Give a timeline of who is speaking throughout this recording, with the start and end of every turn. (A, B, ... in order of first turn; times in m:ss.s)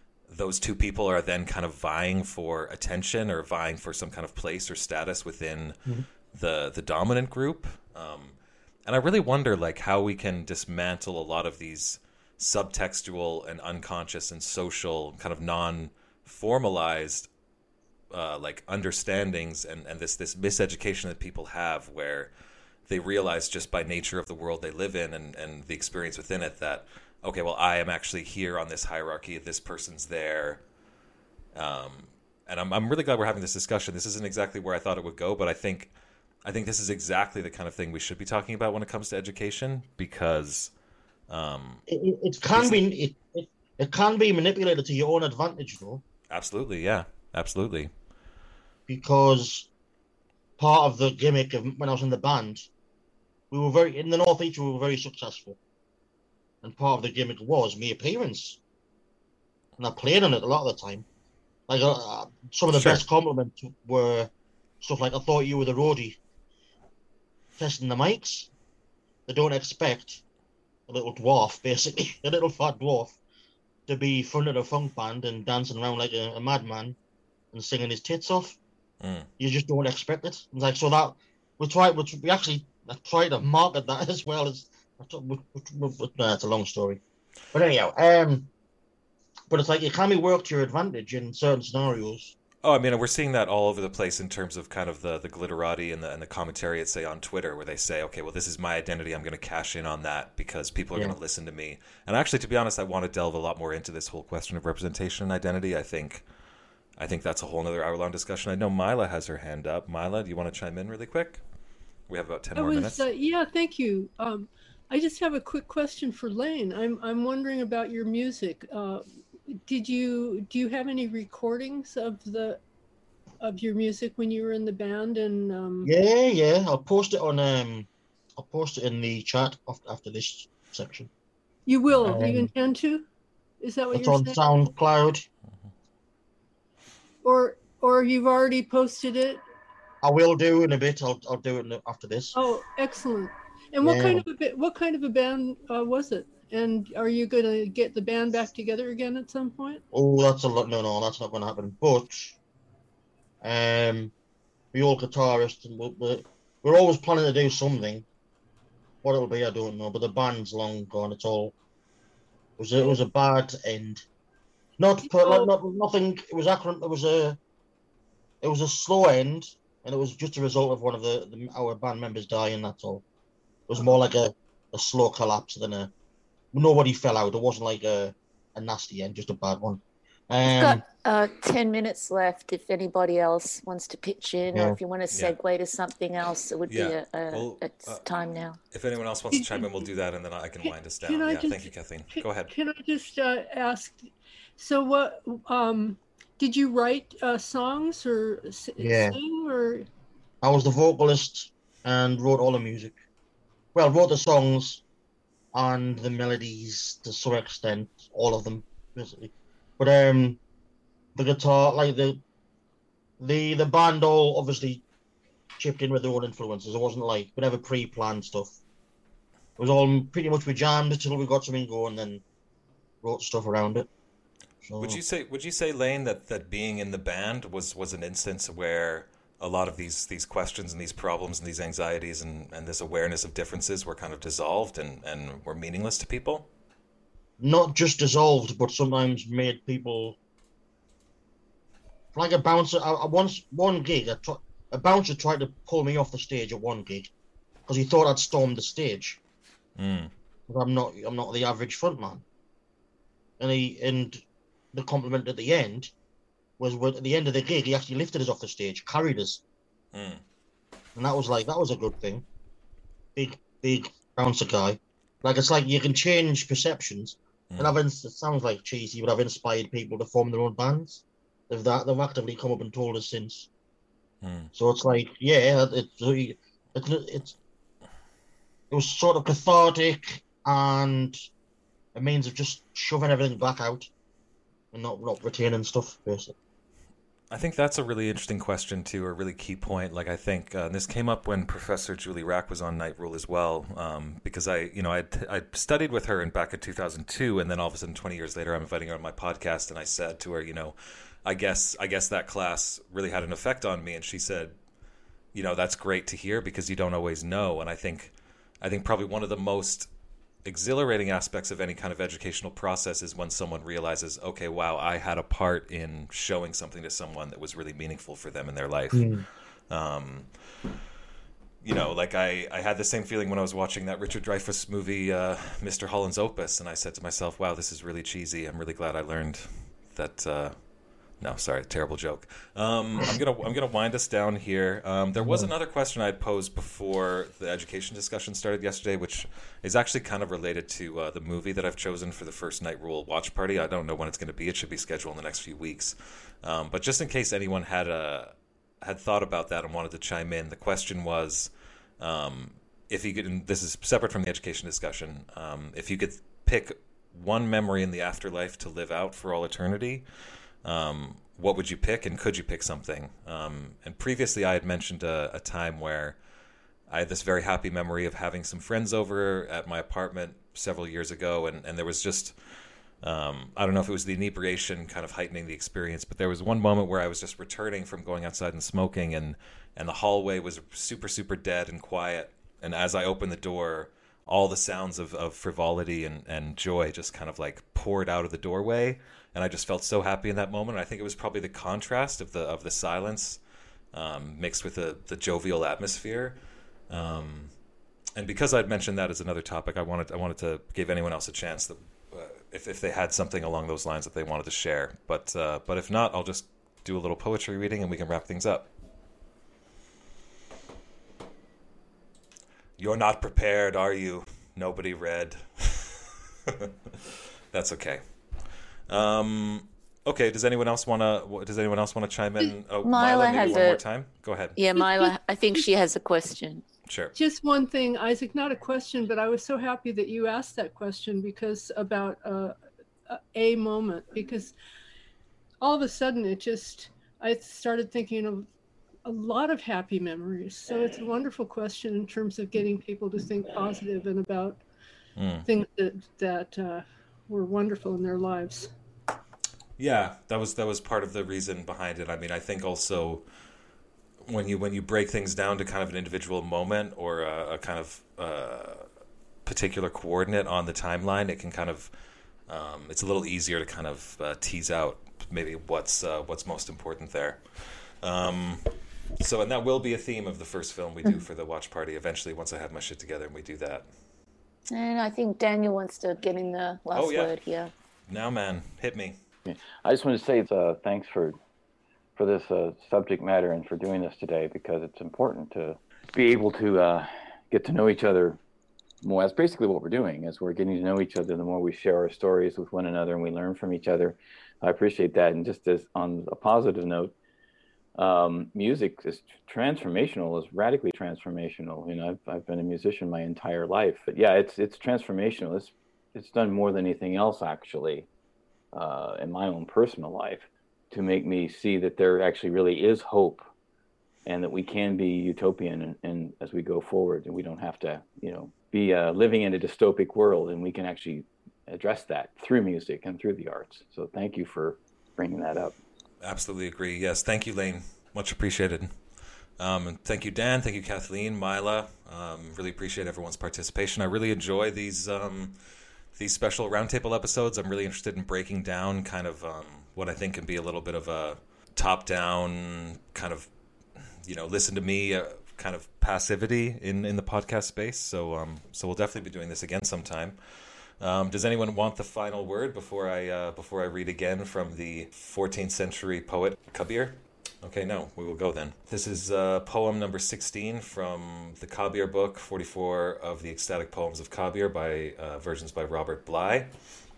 0:00.3-0:05.8 A
0:06.3-0:17.3 A
0:18.1-0:22.3 A
0:22.9-0:30.6 A
0:31.6-0:35.9 A
0:36.4-0:40.7 A
0:41.3-0:41.8 A
0:41.9-0:46.0 B
0:42.6-0:42.8 A
0:46.3-0:47.9 A
0:48.9-0:49.7 B
0:50.6-0:52.7 B
0:53.5-0:55.6 B
0:56.6-0:58.6 B
0:59.8-1:01.0 B
1:01.7-1:06.2 B
1:02.7-1:03.0 A
1:07.6-1:08.5 B
1:09.3-1:10.2 B
1:10.9-1:13.2 B
1:13.9-1:17.0 B
1:17.5-1:18.6 B
1:19.0-1:19.3 A
1:19.4-1:27.0 B
1:27.5-1:28.5 B
1:29.5-1:32.3 B
1:32.6-1:46.2 A
1:47.0-1:51.4 A
1:52.1-1:53.0 A
1:52.6-2:02.6 C
2:03.4-2:05.9 C
2:05.8-2:11.1 B
2:11.6-2:13.0 C
2:11.9-2:12.2 A
2:12.0-2:12.5 B
2:13.6-2:14.4 C
2:13.9-2:15.3 B
2:17.2-2:19.4 C
2:20.0-2:22.3 B
2:22.3-2:29.8 C
2:23.8-2:24.2 B
2:29.9-2:32.4 B
2:33.4-2:34.1 B
2:34.7-2:38.0 B
2:39.0-2:41.6 B
2:42.6-2:44.0 B
2:44.8-2:47.4 B
2:45.0-2:45.5 C
2:48.4-2:53.0 B
2:53.7-2:55.9 B
2:56.5-3:00.8 B
3:00.4-3:08.6 D
3:04.5-3:04.8 B
3:05.1-3:05.4 A
3:06.7-3:08.0 A
3:08.7-3:12.5 A
3:09.3-3:09.8 C
3:10.6-3:19.9 C
3:18.8-3:19.2 B
3:20.4-3:23.0 B
3:23.7-3:24.8 B
3:25.5-3:30.4 B
3:31.1-3:32.2 B
3:33.2-3:34.8 B
3:35.6-3:38.6 B
3:39.6-3:42.2 B
3:43.0-3:43.9 B
3:44.6-3:45.0 B
3:44.8-3:56.5 A
3:57.4-4:00.2 B
4:02.1-4:07.1 B
4:07.7-4:09.2 B
4:09.8-4:10.1 A
4:10.5-4:12.2 B
4:13.4-4:15.9 B
4:16.6-4:19.4 B
4:19.9-4:20.2 A
4:21.0-4:22.2 B
4:23.2-4:33.5 B
4:34.2-4:34.5 A
4:34.6-4:37.3 B
4:38.7-4:41.2 B
4:42.0-4:43.9 B
4:44.7-4:46.3 B
4:47.3-5:04.6 A
5:05.3-5:09.9 A
5:10.4-5:19.1 A
5:18.9-5:19.3 B
5:19.7-5:20.3 A
5:21.6-5:30.6 A
5:31.2-6:00.0 A
5:35.2-5:35.5 B
6:00.6-6:06.2 A
6:06.9-6:12.3 A
6:13.0-6:33.4 A
6:33.9-6:36.4 A
6:36.9-6:37.5 A
6:38.2-6:48.7 A
6:52.8-6:58.0 A
6:58.9-7:04.6 A
7:02.8-7:03.8 D
7:04.6-7:06.6 D
7:04.8-7:05.6 C
7:06.9-7:07.2 A
7:07.1-7:12.6 C
7:13.1-7:14.5 C
7:15.6-7:18.5 C
7:19.0-7:24.6 C
7:25.2-7:25.5 A
7:25.4-7:28.7 C
7:29.8-7:33.2 A
7:34.3-7:38.9 A
7:39.4-7:41.9 A
7:42.5-7:53.9 A
7:54.7-7:57.7 D
7:56.9-7:57.4 A
7:58.1-7:59.2 A
7:59.4-8:01.4 E
8:02.2-8:08.4 E
8:09.0-8:17.1 E
8:18.0-8:28.1 E
8:28.7-8:33.4 E
8:34.3-8:45.8 E
8:46.2-8:48.9 A
8:49.6-8:55.6 A
8:56.2-9:03.5 A
9:04.2-9:10.4 A
9:11.0-9:26.7 A